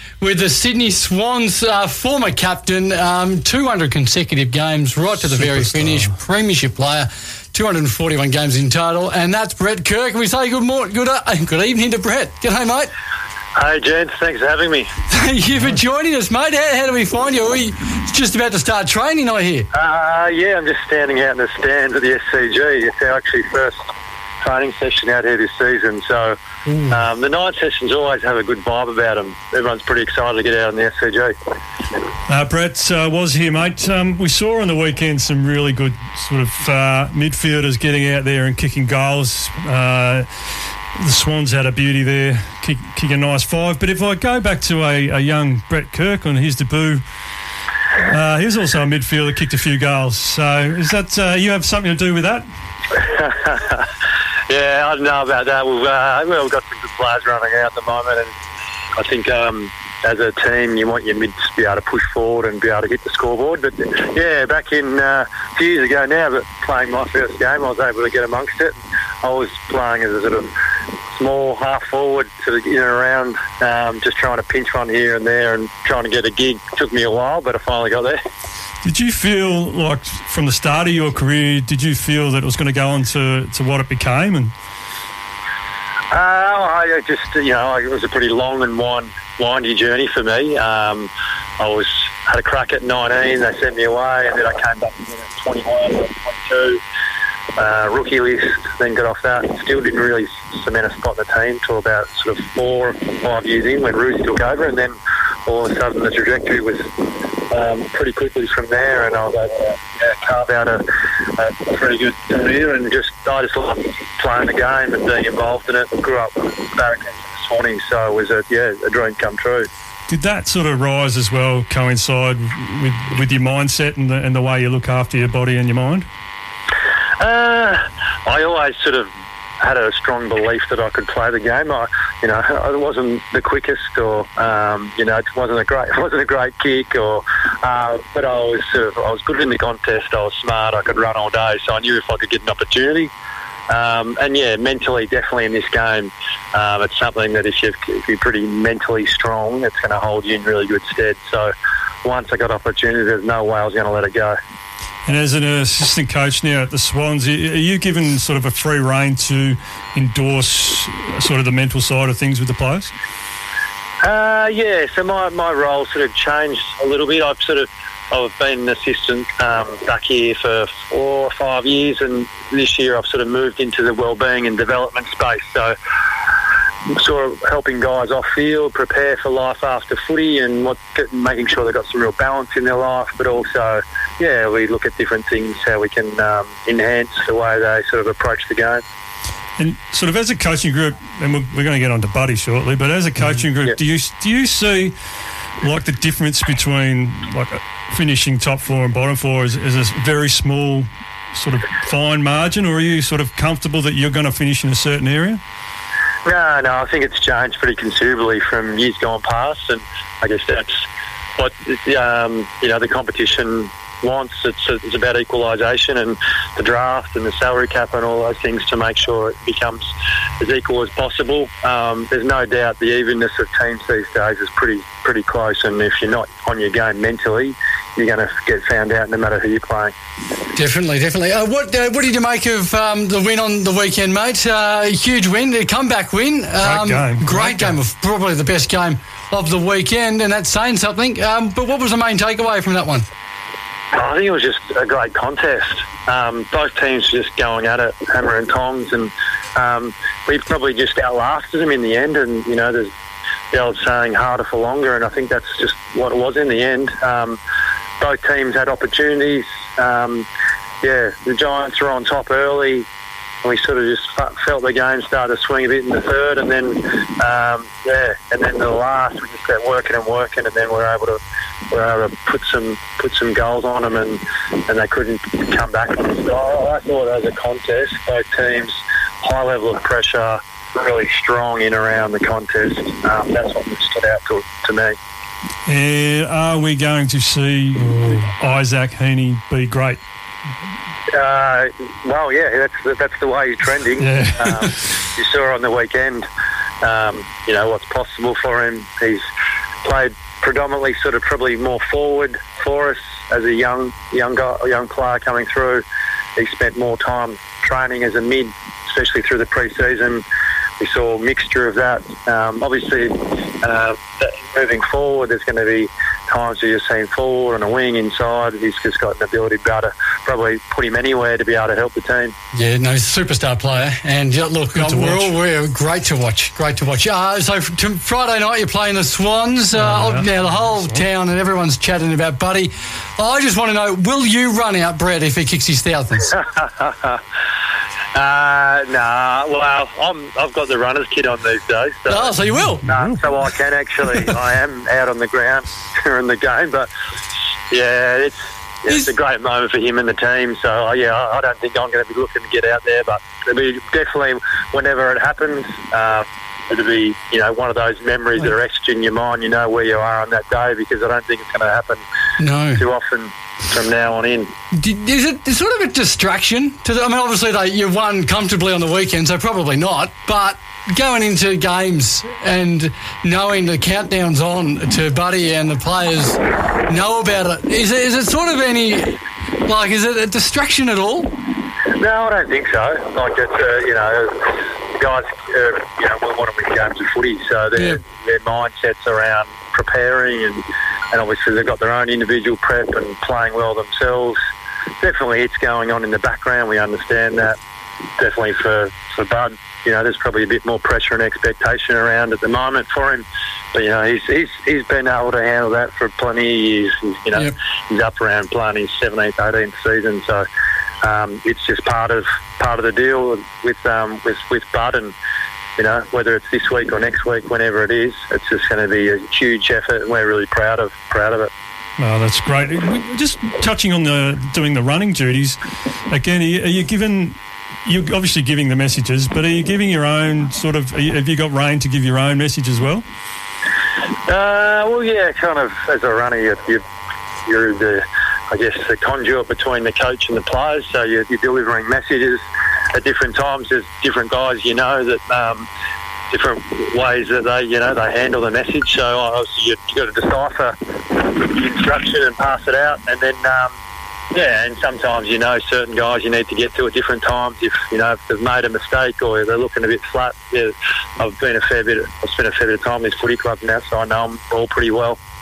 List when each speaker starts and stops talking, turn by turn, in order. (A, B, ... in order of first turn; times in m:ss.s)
0:00.2-0:12.9 A
0:05.2-0:06.1 B
0:13.6-0:15.0 C
0:15.1-0:19.7 A
0:15.5-0:15.8 B
0:19.7-0:23.9 C
0:24.4-0:31.3 C
0:32.3-0:47.0 B
0:48.0-0:52.4 B
0:53.0-0:53.9 C
0:54.5-0:58.3 C
0:59.0-1:10.5 C
1:11.1-1:18.2 C
1:18.8-1:24.5 B
1:26.1-1:36.8 C
1:37.6-1:44.9 C
1:45.4-1:46.9 C
1:47.5-1:50.8 C
1:51.4-1:59.7 C
2:00.1-2:06.1 B
2:07.2-2:09.1 C
2:09.6-2:23.1 C
2:23.7-2:31.5 C
2:32.0-2:34.4 C
2:35.0-2:42.9 B
2:44.0-2:55.7 C
2:56.9-3:08.8 C
3:09.6-3:15.0 B
3:15.6-3:25.4 B
3:26.2-3:30.8 C
3:31.4-3:49.9 C
3:50.5-4:03.1 A
3:56.6-3:57.8 B
4:03.9-4:12.9 C
4:13.5-4:17.4 C
4:18.0-4:20.3 C
4:20.8-4:22.9 C
4:23.4-4:31.2 C
4:31.7-4:45.0 C
4:45.6-4:50.0 B
4:51.1-4:56.2 C
4:54.0-4:54.9 B
4:56.8-4:59.2 C
4:59.8-5:05.8 C
5:06.4-5:10.2 C
5:10.8-5:22.3 C
5:22.5-5:36.3 A
5:24.7-5:25.3 B
5:29.7-5:31.0 B
5:36.5-5:37.2 C
5:38.1-5:42.3 C
5:42.1-5:42.9 A
5:42.5-5:43.2 B
5:42.8-5:46.9 C
5:47.7-6:02.0 C
6:02.4-6:02.8 A
6:02.8-6:04.5 C
6:04.7-6:21.3 A
6:22.0-6:34.4 C
6:35.0-6:37.6 C
6:38.2-6:50.4 C
6:51.0-6:55.1 C
6:55.8-7:01.5 C
7:02.0-7:13.0 B
7:14.3-7:16.8 C
7:17.4-7:25.7 C
7:26.3-7:33.7 C
7:34.3-7:45.2 C